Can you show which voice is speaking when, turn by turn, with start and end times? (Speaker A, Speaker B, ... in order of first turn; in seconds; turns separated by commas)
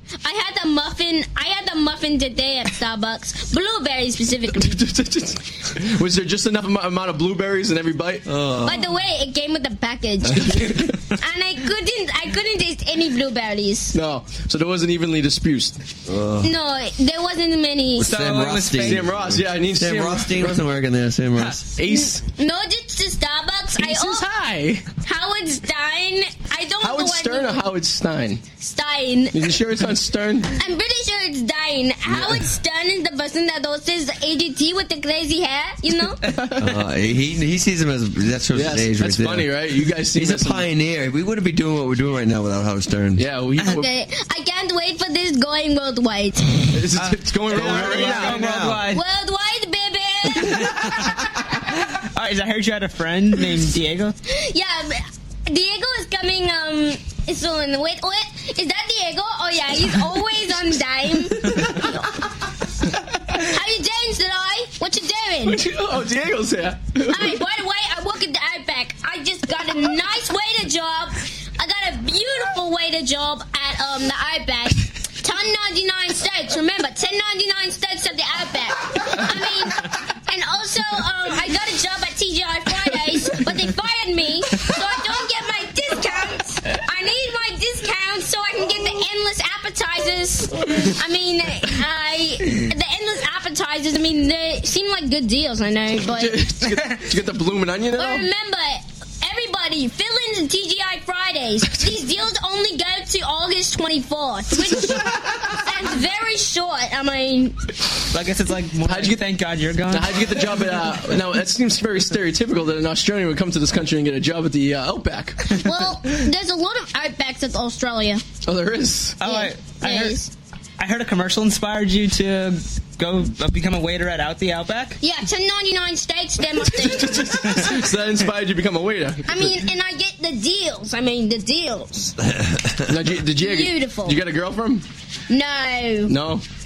Speaker A: 0.2-4.8, Speaker B: 4.6-8.2, Speaker C: 8.2-8.9, Speaker A: 8.6-14.0, Speaker B: 10.4-11.0, Speaker B: 13.9-15.8, Speaker C: 16.1-16.5, Speaker A: 16.4-18.1, Speaker C: 18.0-21.7, Speaker D: 18.0-19.0, Speaker B: 18.8-20.6, Speaker B: 21.8-22.2, Speaker A: 21.9-24.2, Speaker B: 23.8-24.9, Speaker A: 25.0-27.7, Speaker B: 26.8-28.4, Speaker A: 28.6-29.5, Speaker B: 29.3-30.6, Speaker A: 30.5-36.2, Speaker B: 32.1-32.5, Speaker B: 36.2-36.8, Speaker C: 36.6-39.5, Speaker B: 38.5-40.7, Speaker C: 40.1-43.2, Speaker B: 43.2-43.9, Speaker A: 43.6-46.6, Speaker B: 46.7-48.4, Speaker D: 46.9-49.0, Speaker C: 47.5-48.9, Speaker A: 48.9-51.3, Speaker D: 50.4-54.2, Speaker A: 54.3-65.6, Speaker B: 65.4-67.4, Speaker A: 67.1-96.5, Speaker B: 96.1-98.3, Speaker A: 98.0-107.6, Speaker B: 104.8-105.6, Speaker D: 108.1-110.6, Speaker B: 108.8-109.2, Speaker B: 109.9-115.6, Speaker A: 115.5-118.2, Speaker B: 118.4-119.2, Speaker D: 119.2-120.2, Speaker A: 119.2-120.3, Speaker D: 120.8-125.0, Speaker A: 125.0-127.7, Speaker B: 126.7-129.6, Speaker A: 129.3-132.2, Speaker C: 132.2-133.0, Speaker B: 132.8-134.8, Speaker A: 133.4-134.2, Speaker A: 135.3-136.2, Speaker B: 136.1-136.4